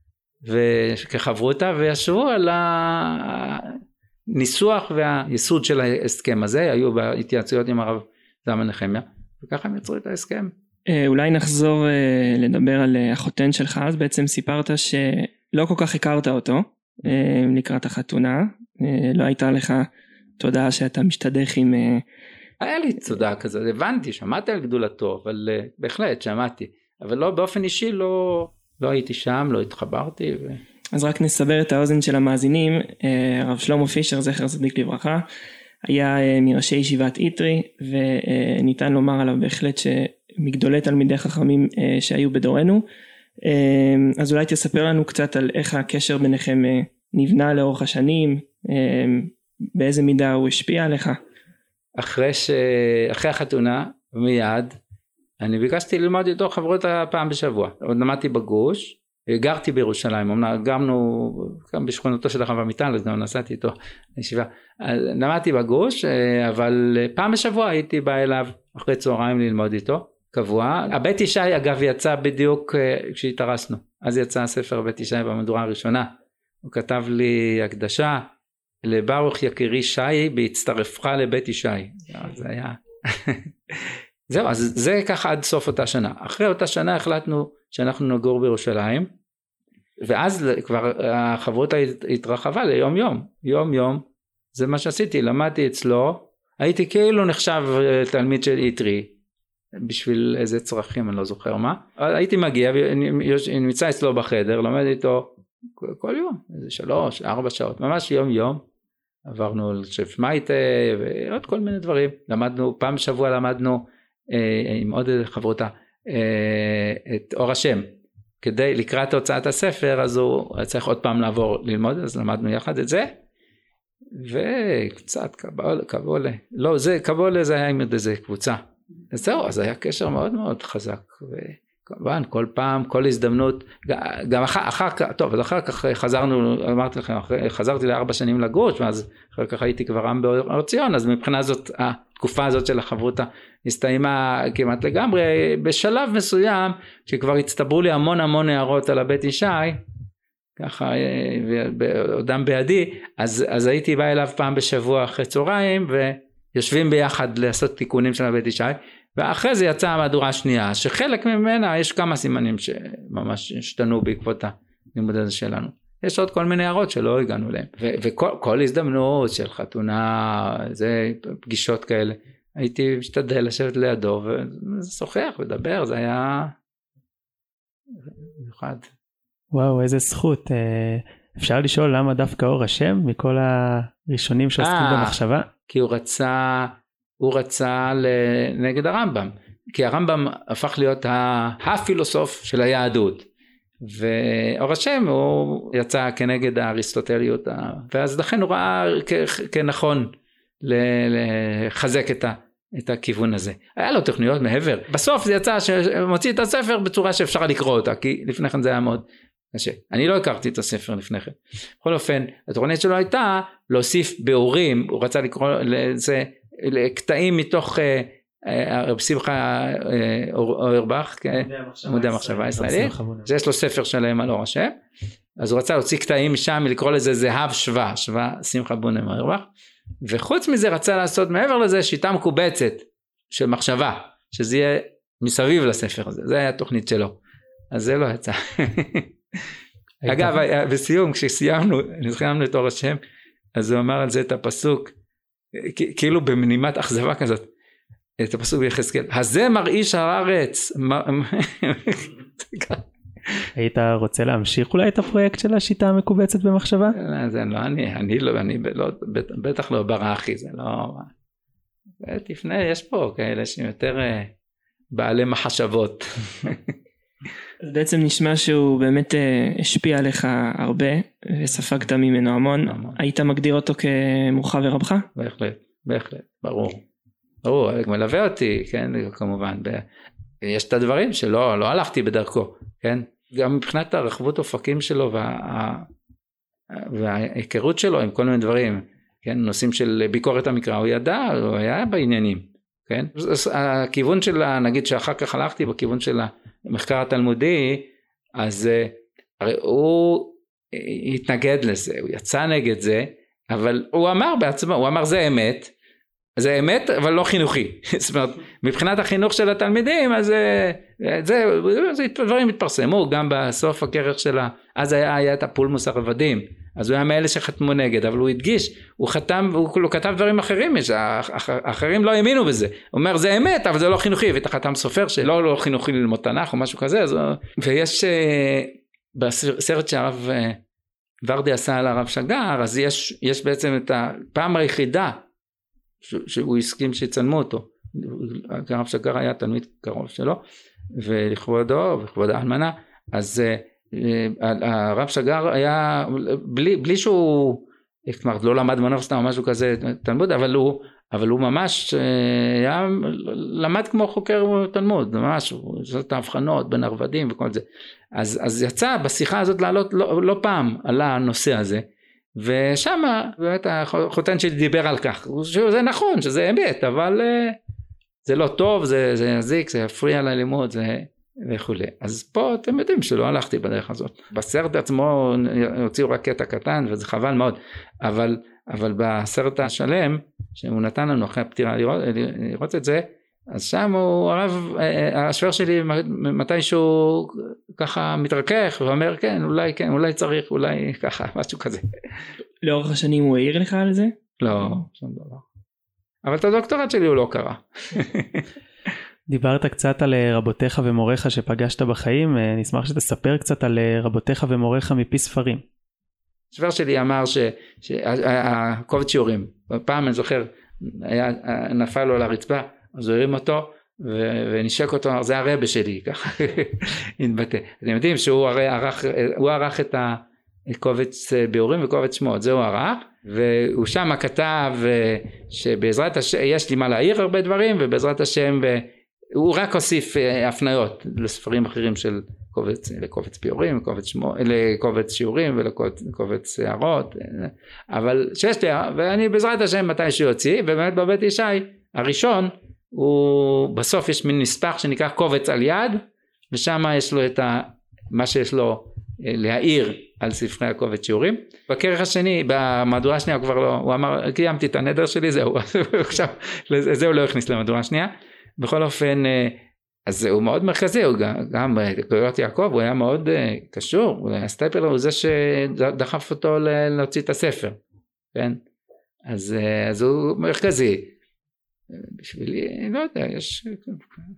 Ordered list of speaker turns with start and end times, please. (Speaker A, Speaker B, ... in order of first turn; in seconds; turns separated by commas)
Speaker A: 0.4-3.8, Speaker A: 4.3-10.5, Speaker B: 10.9-19.9, Speaker B: 20.4-22.0, Speaker A: 22.6-30.6, Speaker B: 30.9-35.2, Speaker B: 35.9-42.8, Speaker B: 43.4-51.2, Speaker A: 52.0-54.7, Speaker A: 55.4-76.1, Speaker A: 76.6-78.3, Speaker A: 78.8-89.1, Speaker A: 90.0-99.1, Speaker A: 99.8-108.6, Speaker A: 109.2-117.9, Speaker A: 118.4-123.1, Speaker A: 124.1-149.8, Speaker A: 150.6-176.5, Speaker A: 178.4-178.9, Speaker C: 179.5-185.5, Speaker A: 184.6-193.3, Speaker A: 193.8-224.7, Speaker C: 221.3-223.3, Speaker A: 225.4-229.5, Speaker A: 230.0-237.2, Speaker A: 237.7-239.1, Speaker C: 240.0-240.4, Speaker A: 240.1-243.0, Speaker A: 243.5-244.9, Speaker A: 245.5-247.5, Speaker A: 248.2-252.8, Speaker C: 253.6-256.9, Speaker A: 256.9-261.1, Speaker A: 262.0-264.3, Speaker A: 264.9-266.7, Speaker B: 267.6-275.1, Speaker A: 272.7-273.0, Speaker A: 275.1-276.8, Speaker A: 277.4-279.8, Speaker A: 280.4-285.9, Speaker A: 286.7-305.7, Speaker A: 306.4-330.6, Speaker A: 331.2-335.2, Speaker A: 336.0-340.4, Speaker A: 340.9-357.6, Speaker A: 358.1-361.9, Speaker A: 362.4-367.6, Speaker A: 368.2-391.9, Speaker B: 392.6-394.1, Speaker A: 394.4-395.4, Speaker A: 396.2-398.5, Speaker C: 399.3-405.6, Speaker A: 406.5-467.8, Speaker A: 468.3-468.6, Speaker A: 469.3-471.1, Speaker A: 471.9-474.0